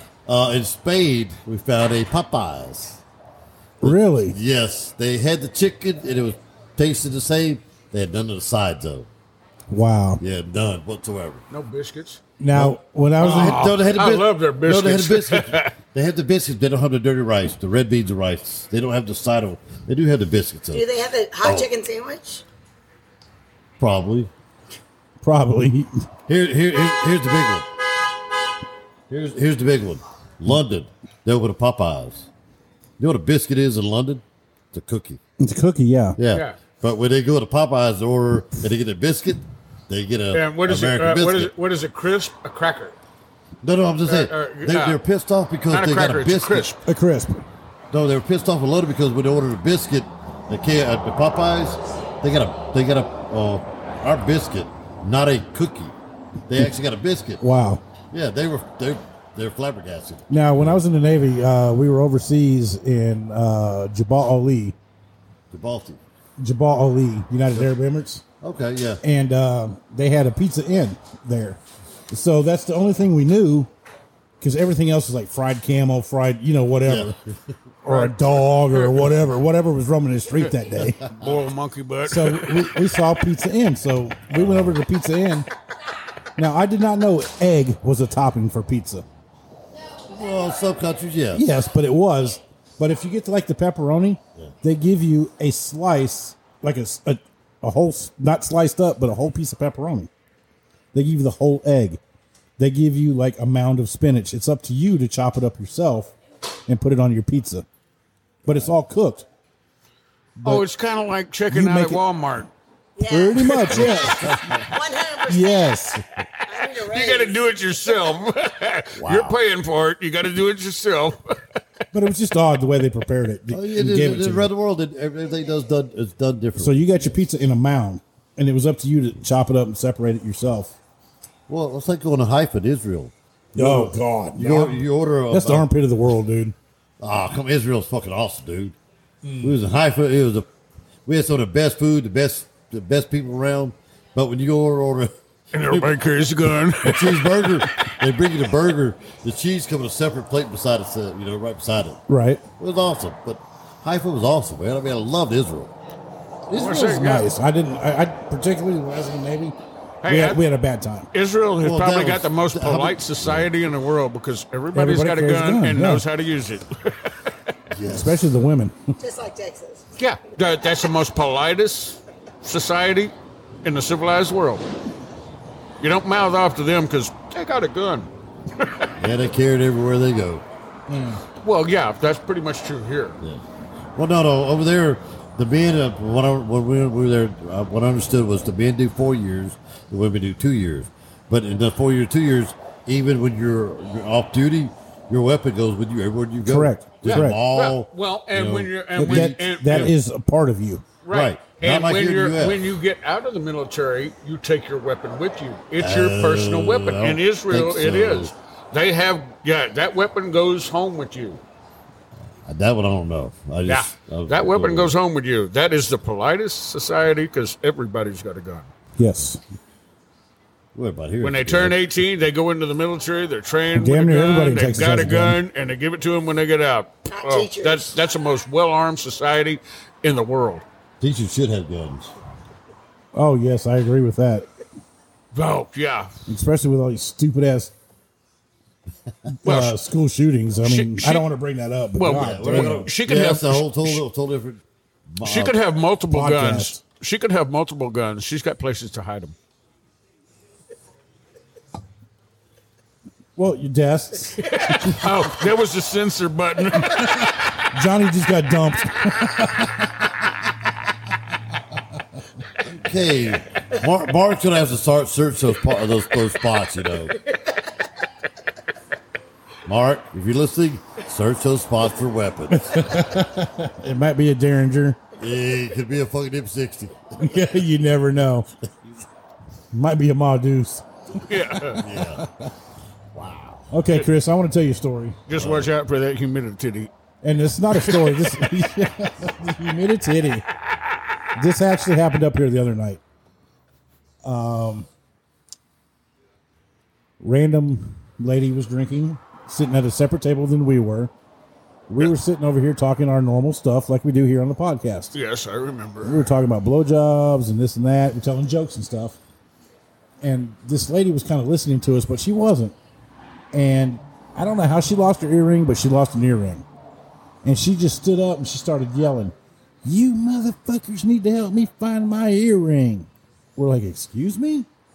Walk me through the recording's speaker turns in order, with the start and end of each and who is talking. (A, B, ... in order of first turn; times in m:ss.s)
0:00.3-0:03.0 A
0:03.8-0:04.4 B
0:03.8-0:09.1 A
0:09.7-0:10.2 B
0:10.2-0:11.4 A
0:11.5-0:12.2 C
0:12.4-0:13.8 B
0:12.5-0:21.7 A
0:13.2-0:15.7 C
0:20.7-0:22.4 D
0:23.8-0:24.3 A
0:25.2-0:26.0 B
0:26.3-0:27.7 A
0:29.1-0:32.3 A
0:33.0-0:35.2 A
0:35.4-0:36.2 B
0:36.2-0:41.5 A
0:36.3-0:36.6 C
0:40.3-0:43.0 C
0:43.6-0:46.7 A
0:44.1-0:45.0 C
0:45.7-0:46.9 C
0:46.8-0:47.4 B
0:47.9-0:56.0 A
0:56.5-0:57.4 A
0:57.4-0:57.8 B
0:58.1-1:00.8 A
1:00.3-1:04.8 B
1:05.5-1:06.0 A
1:06.4-1:08.2 B
1:08.4-1:09.0 A
1:09.0-1:11.6 B
1:12.1-1:13.7 B
1:14.4-1:17.2 B
1:16.8-1:17.4 A
1:17.8-1:21.1 B
1:17.9-1:19.2 C
1:21.2-1:22.8 C
1:22.1-1:25.5 B
1:24.3-1:24.8 A
1:26.4-1:29.0 B
1:30.1-1:31.4 A
1:31.3-1:40.1 B
1:40.9-1:42.0 B
1:42.6-1:46.1 B
1:46.7-1:47.7 B
1:48.4-1:49.3 B
1:50.4-1:50.7 B
1:50.4-1:52.5 C
1:51.5-1:52.0 B
1:53.0-1:55.8 D
1:53.1-1:54.5 B
1:53.4-1:53.8 C
1:53.8-1:54.7 A
1:55.3-1:56.0 B
1:56.5-2:01.4 C
1:56.5-1:57.4 D
1:59.0-1:59.4 A
2:01.9-2:04.5 B
2:03.5-2:07.2 A
2:06.6-2:10.8 B
2:11.5-2:15.7 A
2:13.5-2:16.6 B
2:17.0-2:18.8 A
2:19.2-2:19.6 B
2:19.4-2:20.5 A
2:21.1-2:25.1 A
2:25.5-2:27.9 C
2:25.6-2:25.9 A
2:26.8-2:32.0 A
2:32.1-2:32.4 B
2:32.6-2:35.7 A
2:36.5-2:37.0 A
2:36.5-2:37.3 C
2:36.8-2:41.1 B
2:40.0-2:40.4 C
2:41.1-2:47.3 C
2:41.6-2:43.6 A
2:44.7-2:46.1 B
2:47.7-2:48.2 A
2:47.9-2:49.0 B
2:49.0-2:49.8 D
2:50.0-2:54.7 C
2:55.8-2:58.9 C
2:59.0-3:00.4 A
3:00.9-3:01.2 B
3:01.4-3:03.2 C
3:04.0-3:19.9 A
3:16.4-3:17.4 B
3:17.0-3:19.9 C
3:19.0-3:20.9 B
3:21.0-3:31.4 C
3:21.1-3:22.7 A
3:25.8-3:28.3 A
3:32.5-3:35.0 A
3:33.7-3:38.7 C
3:39.0-3:39.4 B
3:40.8-3:41.8 A
3:41.2-3:50.6 C
3:43.7-3:45.4 B
3:47.1-3:47.9 D
3:51.0-3:52.1 A
3:53.1-3:54.5 B
3:55.3-3:56.1 C
3:56.3-3:57.7 B
3:59.3-4:02.9 B
3:59.4-3:59.8 C
4:00.6-4:01.2 C
4:02.0-4:04.0 C
4:02.1-4:05.6 A
4:05.2-4:09.4 C
4:06.1-4:06.8 B
4:13.4-4:15.2 B
4:14.4-4:17.6 C
4:17.7-4:19.9 B
4:22.6-4:27.2 A
4:29.7-4:32.8 A
4:32.5-4:35.0 B
4:35.2-4:37.2 A
4:37.2-4:38.5 B
4:39.7-4:42.5 B
4:41.2-4:41.8 C
4:41.8-4:42.3 A
4:43.2-4:43.7 A
4:43.7-4:45.2 B
4:45.3-4:46.9 C
4:45.3-4:45.7 A
4:47.2-4:50.5 B
4:47.7-4:48.2 C
4:51.4-4:53.0 B
4:54.2-4:54.9 B
4:57.2-5:01.1 B
5:01.9-5:05.1 B
5:05.1-5:06.3 C
5:06.0-5:09.2 B
5:10.2-5:12.8 B
5:13.5-5:16.7 B
5:17.4-5:19.3 B
5:19.8-5:24.7 B